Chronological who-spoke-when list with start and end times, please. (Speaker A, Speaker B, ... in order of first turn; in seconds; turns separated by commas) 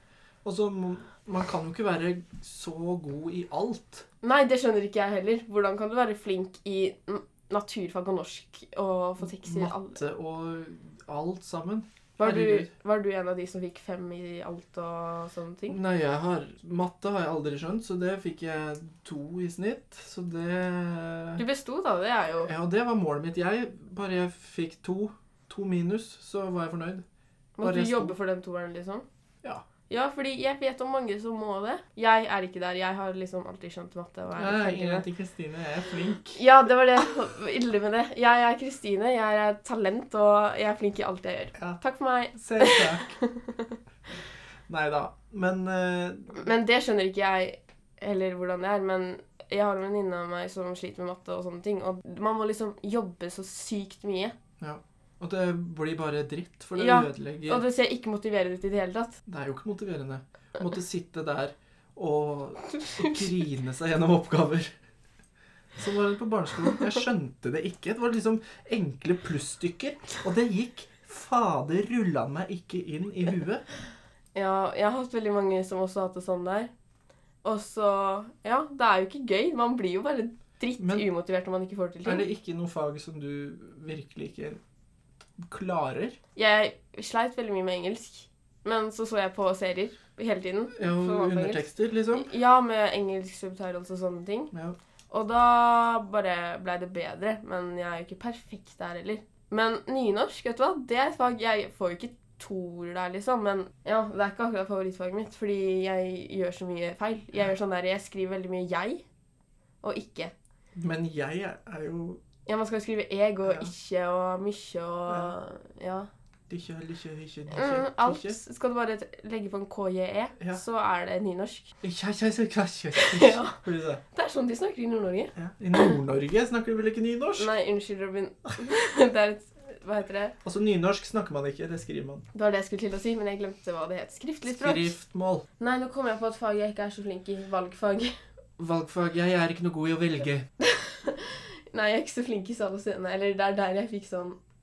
Speaker A: 0.4-4.0, Speaker B: 4.2-10.0, Speaker A: 9.2-12.7, Speaker B: 12.2-15.8, Speaker A: 15.7-21.4, Speaker B: 21.4-22.5, Speaker A: 22.4-27.1, Speaker B: 27.6-29.1, Speaker A: 27.6-28.2, Speaker B: 29.9-35.1, Speaker A: 34.4-36.4, Speaker B: 36.4-43.8, Speaker A: 42.4-43.1, Speaker A: 44.7-46.5, Speaker B: 46.4-54.4, Speaker A: 54.6-57.6, Speaker B: 56.8-59.2, Speaker A: 59.3-64.7, Speaker B: 62.7-63.3, Speaker A: 65.8-73.6, Speaker B: 74.3-76.7, Speaker B: 77.4-82.3, Speaker A: 80.8-81.1, Speaker A: 82.0-84.6, Speaker A: 85.4-86.2, Speaker B: 86.4-94.5, Speaker A: 90.8-92.3, Speaker B: 95.1-109.0, Speaker B: 109.8-110.3, Speaker A: 110.8-112.2, Speaker B: 112.5-116.1, Speaker A: 113.5-113.7, Speaker A: 115.1-115.3, Speaker A: 116.5-118.4, Speaker B: 117.5-121.7, Speaker A: 121.8-124.0, Speaker B: 122.9-123.6, Speaker B: 124.1-125.9, Speaker A: 125.3-127.5, Speaker B: 127.4-130.3, Speaker A: 130.4-132.2, Speaker B: 132.3-135.0, Speaker A: 134.4-135.4, Speaker B: 135.6-138.1, Speaker A: 138.6-140.5, Speaker B: 140.6-144.4